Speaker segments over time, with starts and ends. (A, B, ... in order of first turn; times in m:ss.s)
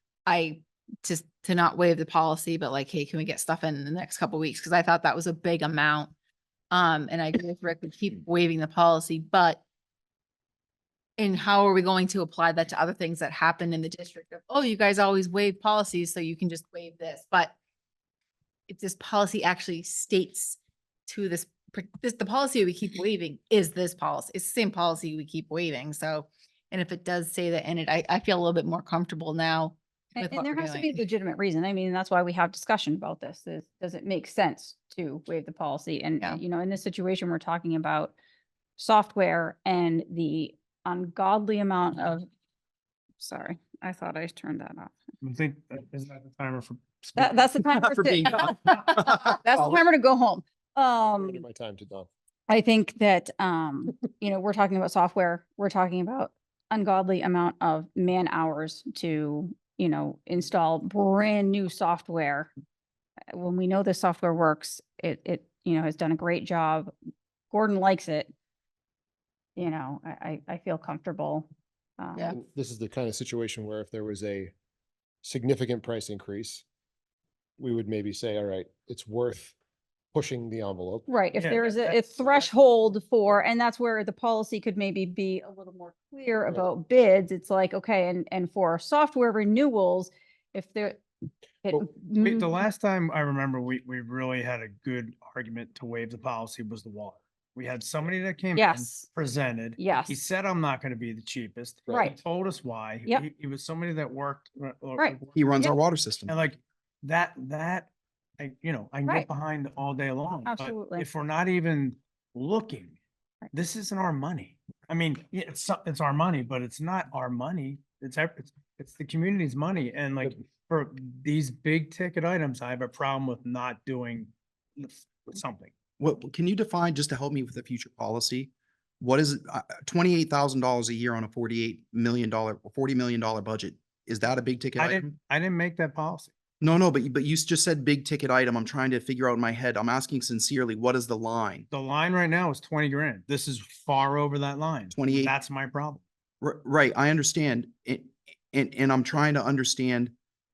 0:00.2-0:06.1 A
0:06.7-0:09.6 A
0:11.2-0:17.5 A
0:18.7-0:31.0 A
0:30.2-0:38.2 B
0:38.8-0:42.2 B
0:43.2-0:44.9 B
0:45.2-0:47.4 C
0:47.2-0:51.4 B
0:47.2-0:49.6 D
0:51.1-0:52.1 E
0:52.5-1:02.5 B
1:03.3-1:06.9 B
1:07.5-1:08.3 B
1:09.6-1:12.3 B
1:12.3-1:14.5 E
1:15.2-1:16.6 E
1:17.6-1:19.5 E
1:20.1-1:21.1 E
1:21.1-1:31.0 B
1:21.3-1:22.5 C
1:31.6-1:32.6 B
1:32.2-1:45.5 C
1:38.5-1:39.1 B
1:39.8-1:40.2 B
1:41.9-1:42.1 E
1:41.9-1:42.1 B
1:45.0-1:45.8 B
1:45.3-1:46.4 D
1:46.3-1:53.0 C
1:50.4-1:51.0 B
1:53.5-2:05.7 C
2:06.0-2:15.1 D
2:14.8-2:16.3 C
2:16.6-2:21.7 D
2:21.7-2:26.0 C
2:24.9-2:25.3 D
2:26.4-2:30.1 D